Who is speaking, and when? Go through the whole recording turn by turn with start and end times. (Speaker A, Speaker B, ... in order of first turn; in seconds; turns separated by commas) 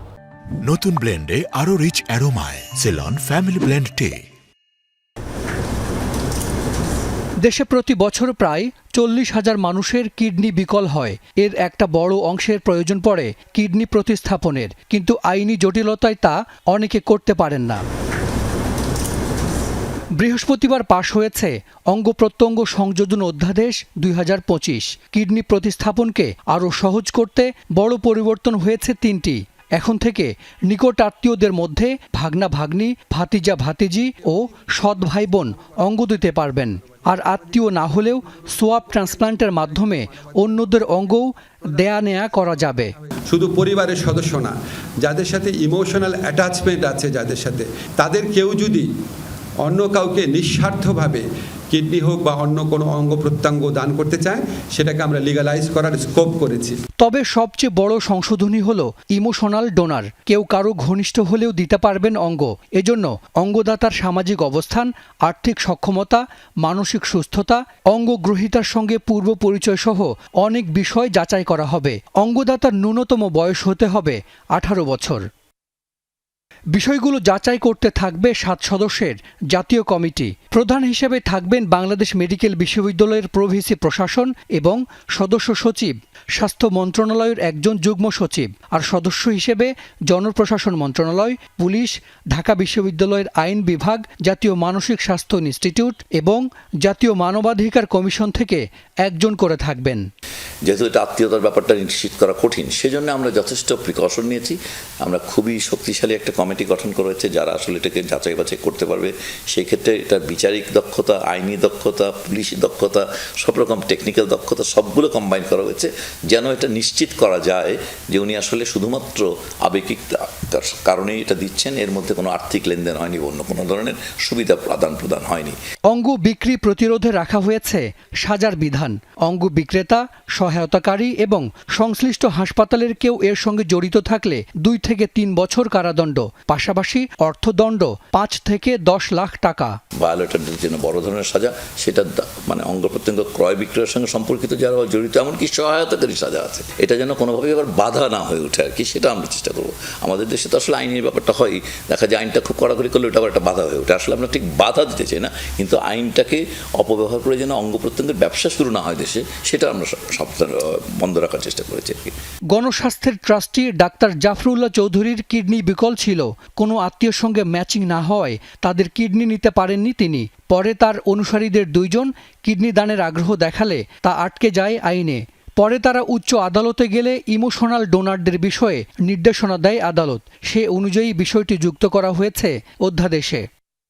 Speaker A: 0.6-4.2, Speaker B: 7.4-17.8, Speaker B: 20.2-42.9, Speaker C: 43.3-48.9, Speaker C: 49.7-56.8, Speaker B: 57.0-75.2, Speaker B: 76.7-100.1, Speaker D: 100.7-125.6, Speaker B: 125.9-139.8, Speaker D: 140.0-162.1, Speaker B: 162.5-183.5